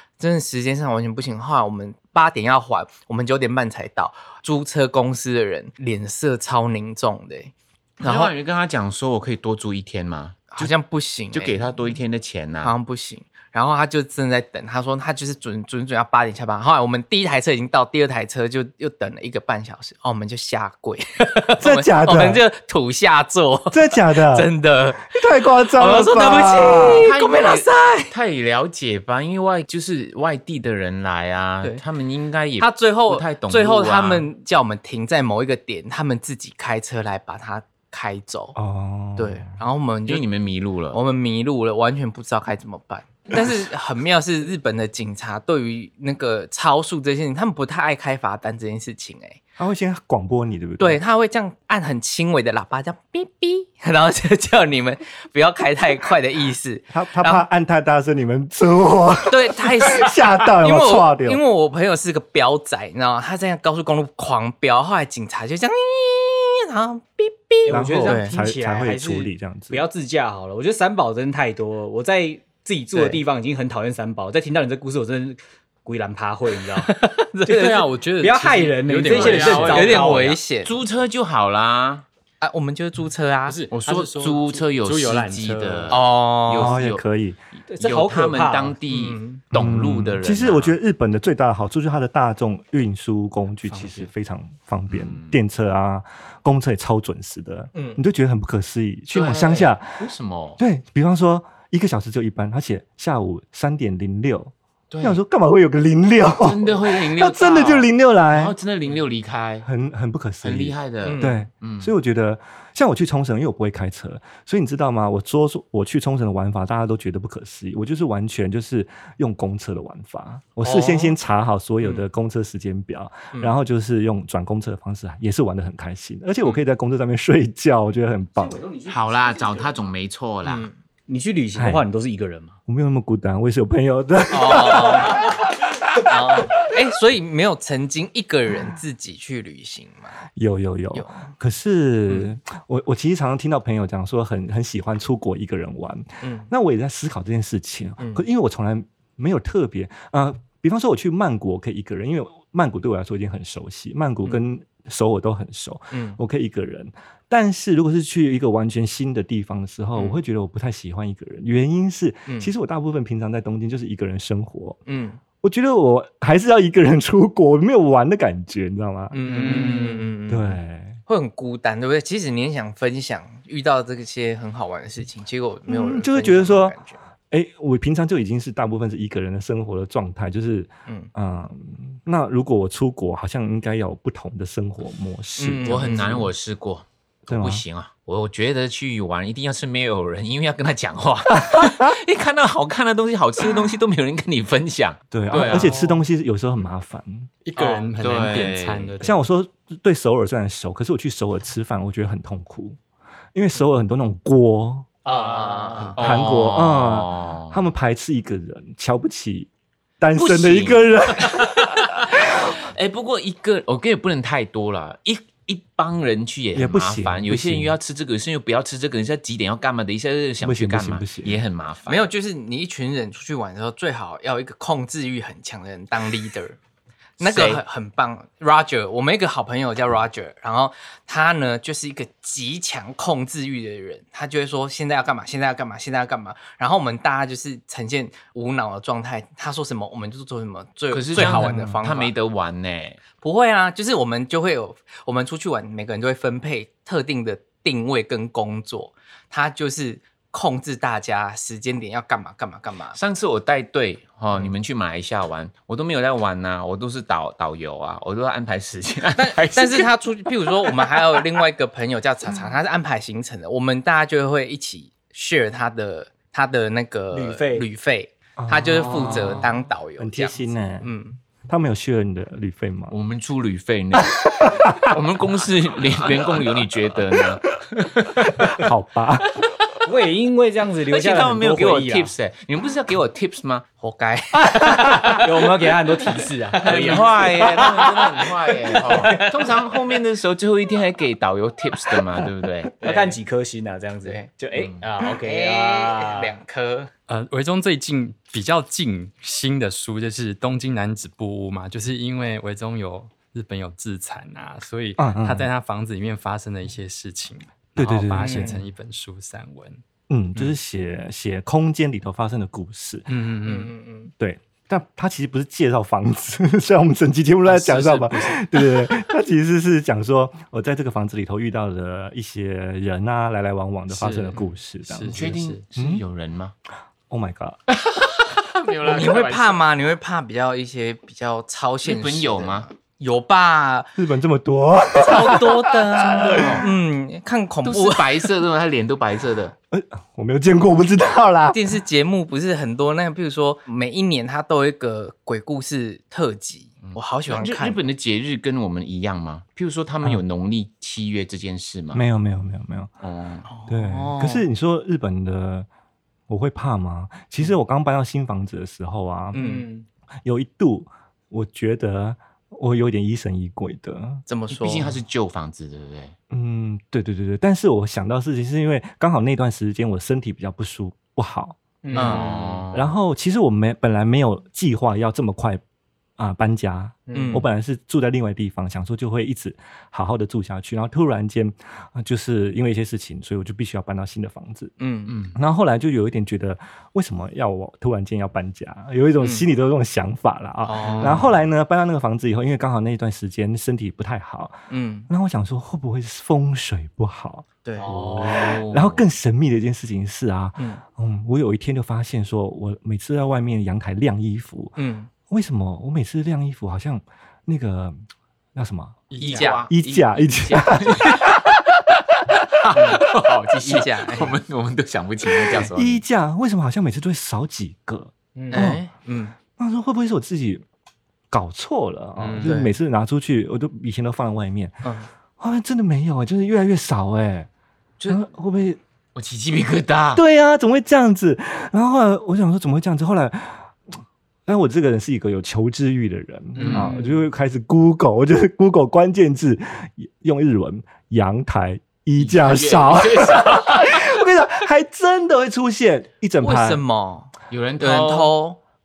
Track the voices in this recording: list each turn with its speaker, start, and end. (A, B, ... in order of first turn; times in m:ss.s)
0:00.2-0:08.3 A
0:08.0-0:10.7 B
0:10.5-0:11.7 A
0:11.3-0:12.8 B
0:12.6-0:28.1 A
0:21.6-0:22.4 C
0:23.7-0:24.5 C
0:25.1-0:27.1 C
0:27.0-0:34.3 B
0:32.6-0:38.6 A
0:38.6-0:39.6 C
0:39.2-0:40.3 A
0:40.1-0:41.0 B
0:40.9-0:49.4 A
0:49.6-0:51.0 C
0:50.8-0:57.5 A
0:56.9-1:01.4 C
0:59.3-1:08.3 A
1:07.6-1:20.4 D
1:07.7-1:09.9 C
1:12.9-1:13.2 A
1:16.9-1:17.6 A
1:17.5-1:20.1 E
1:19.1-1:20.0 B
1:19.4-1:20.8 A
1:20.6-1:22.0 B
1:22.4-1:23.6 A
1:23.5-1:26.0 E
1:23.7-1:27.0 B
1:25.9-1:26.8 A
1:26.5-1:27.4 C
1:27.6-1:30.8 B
1:27.7-1:28.8 D
1:28.9-1:29.5 A
1:29.5-1:40.1 C
1:33.6-1:34.1 E
1:34.9-1:35.4 B
1:37.7-1:38.0 A
1:39.1-1:40.6 B
1:40.6-1:48.6 C
1:44.9-1:45.2 B
1:46.4-1:49.7 B
1:49.6-2:08.6 C
1:50.4-1:51.9 B
1:51.0-1:51.5 A
2:00.6-2:01.2 A
2:08.4-2:09.8 D
2:08.9-2:10.7 B
2:10.4-2:10.8 A
2:11.1-2:12.6 D
2:11.6-2:11.9 C
2:12.7-2:16.6 C
2:14.3-2:15.3 A
2:16.0-2:20.2 A
2:20.4-2:44.8 C
2:20.9-2:21.3 A
2:26.2-2:26.5 A
2:28.0-2:28.2 A
2:35.9-2:36.2 A
2:40.0-2:40.2 A
2:42.3-2:42.5 A
2:44.9-2:45.2 A
2:45.4-2:49.6 C
2:49.1-2:57.0 A
2:49.3-2:49.9 E
2:49.3-2:50.1 D
2:50.3-2:51.0 C
2:55.7-2:56.8 C
2:57.3-3:06.3 C
3:05.4-3:06.3 A
3:05.6-3:15.8 B
3:07.3-3:07.6 C
3:11.4-3:11.9 C
3:15.1-3:17.3 C
3:15.4-3:15.8 E
3:15.4-3:15.7 A
3:17.4-3:19.2 E
3:18.0-3:18.9 B
3:19.0-3:22.8 C
3:23.3-3:24.9 C
3:25.1-3:25.9 D
3:25.1-3:25.9 A
3:26.0-3:27.6 B
3:26.0-3:29.5 C
3:30.0-3:32.5 C
3:30.2-3:42.1 B
3:36.5-3:37.8 C
3:40.4-3:41.4 C
3:41.9-3:46.6 A
3:47.2-4:02.2 A
3:47.2-3:47.6 B
4:00.9-4:03.0 B
4:01.2-4:01.8 C
4:03.1-4:13.0 A
4:12.9-4:21.4 B
4:19.2-4:31.2 A
4:27.1-4:27.7 D
4:28.4-4:29.4 C
4:28.9-4:29.5 B
4:30.0-4:30.9 C
4:31.5-4:33.0 C
4:32.9-4:37.5 B
4:34.1-4:34.9 C
4:38.1-4:39.4 C
4:39.8-4:42.1 D
4:40.9-4:43.7 B
4:43.8-4:45.5 A
4:44.5-4:47.8 D
4:46.6-4:52.9 B
4:46.6-4:48.1 A
4:48.7-4:49.3 A
4:48.8-4:49.3 D
4:52.8-4:56.3 D
4:52.8-4:53.2 A
4:54.0-4:54.3 A
4:54.6-4:54.8 B
4:55.1-4:56.9 A
4:57.1-5:09.8 E
5:05.0-5:05.5 C
5:07.8-5:08.6 C
5:08.2-5:08.6 A
5:10.1-5:13.1 C
5:13.1-5:13.7 E
5:13.4-5:14.1 A
5:14.2-5:26.0 C
5:17.4-5:18.9 E
5:23.9-5:25.6 E
5:25.1-5:26.6 B
5:27.1-5:27.6 C
5:27.7-5:29.6 B
5:28.8-5:33.9 A
5:31.8-5:32.7 B
5:34.0-5:36.6 C
5:35.0-5:38.3 A
5:36.1-5:36.7 B
5:37.6-5:39.6 B
5:39.7-5:41.7 C
5:41.5-5:47.8 A
5:46.8-5:52.0 B
5:51.9-5:52.9 C
5:53.0-5:53.5 B
5:53.5-5:54.5 A
5:53.7-5:55.7 C
5:56.3-5:59.4 C
5:59.3-5:59.7 A
5:59.3-5:59.9 D
6:00.2-6:04.2 C
6:04.3-6:05.0 A
6:04.5-6:06.2 B
6:06.3-6:11.6 C
6:11.8-6:12.4 D
6:11.9-6:12.4 A
6:11.9-6:12.9 B
6:12.7-6:15.6 C
6:16.2-6:24.7 C
6:17.1-6:17.5 D
6:17.1-6:17.5 A
6:24.8-6:25.3 A
6:25.1-6:25.4 B
6:25.4-6:37.5 C
6:29.2-6:29.5 A
6:30.6-6:31.3 A
6:30.9-6:31.2 B
6:34.7-6:35.1 A
6:37.6-6:37.9 A
6:37.8-6:39.0 B
6:37.8-6:38.6 D
6:38.2-6:44.8 C
6:44.8-6:45.1 A
6:45.3-6:48.0 C
6:48.6-6:49.0 C
6:49.1-6:49.5 E
6:49.2-6:51.4 B
6:49.2-6:49.7 A
6:49.7-6:51.4 C
6:52.7-6:56.0 B
6:52.7-6:53.1 A
6:53.6-6:54.4 A
6:55.6-6:58.8 C
6:58.4-6:58.7 D
6:58.5-6:59.4 A
6:59.5-7:00.6 C
7:01.3-7:04.8 C
7:02.2-7:02.6 E
7:02.4-7:02.8 A
7:04.8-7:05.1 A
7:05.4-7:07.5 C
7:08.1-7:08.8 C
7:09.2-7:10.2 B
7:10.1-7:13.7 C
7:14.5-7:26.8 C
7:16.6-7:17.0 E
7:22.2-7:24.2 B
7:26.4-7:28.6 A
7:27.5-7:28.4 B